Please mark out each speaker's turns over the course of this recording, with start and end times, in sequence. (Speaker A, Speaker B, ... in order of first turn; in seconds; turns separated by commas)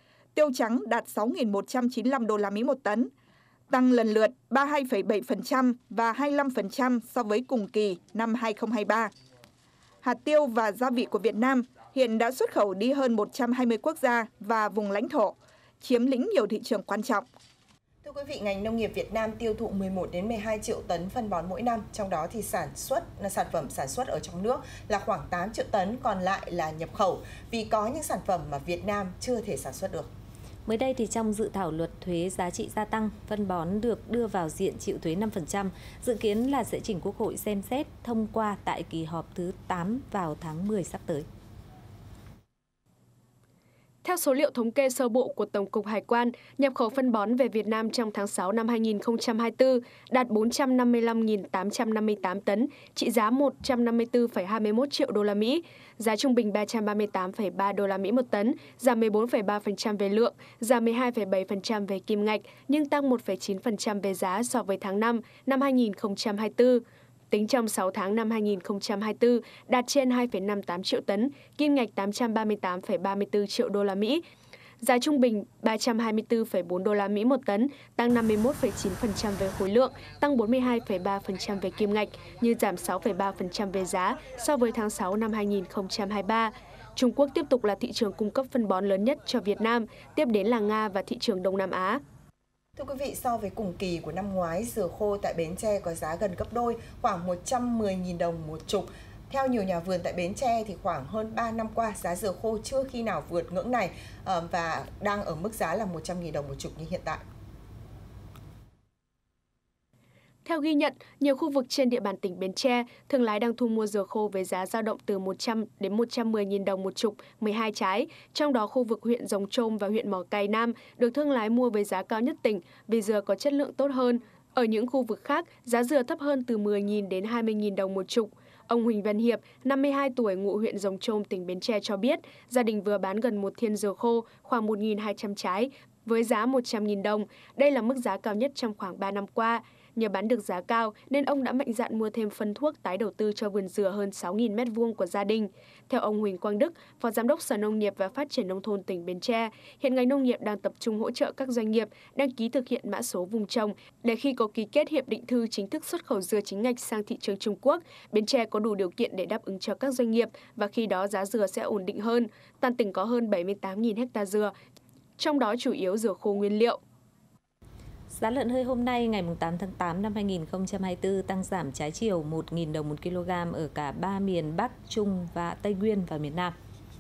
Speaker A: 0.3-3.1, Speaker A: 3.7-9.1, Speaker A: 10.0-17.2, Speaker B: 18.0-30.1, Speaker C: 30.7-41.3, Speaker D: 44.0-74.2, Speaker D: 74.8-92.0, Speaker B: 92.8-107.2, Speaker D: 110.5-164.5, Speaker D: 165.2-166.8, Speaker C: 168.1-176.5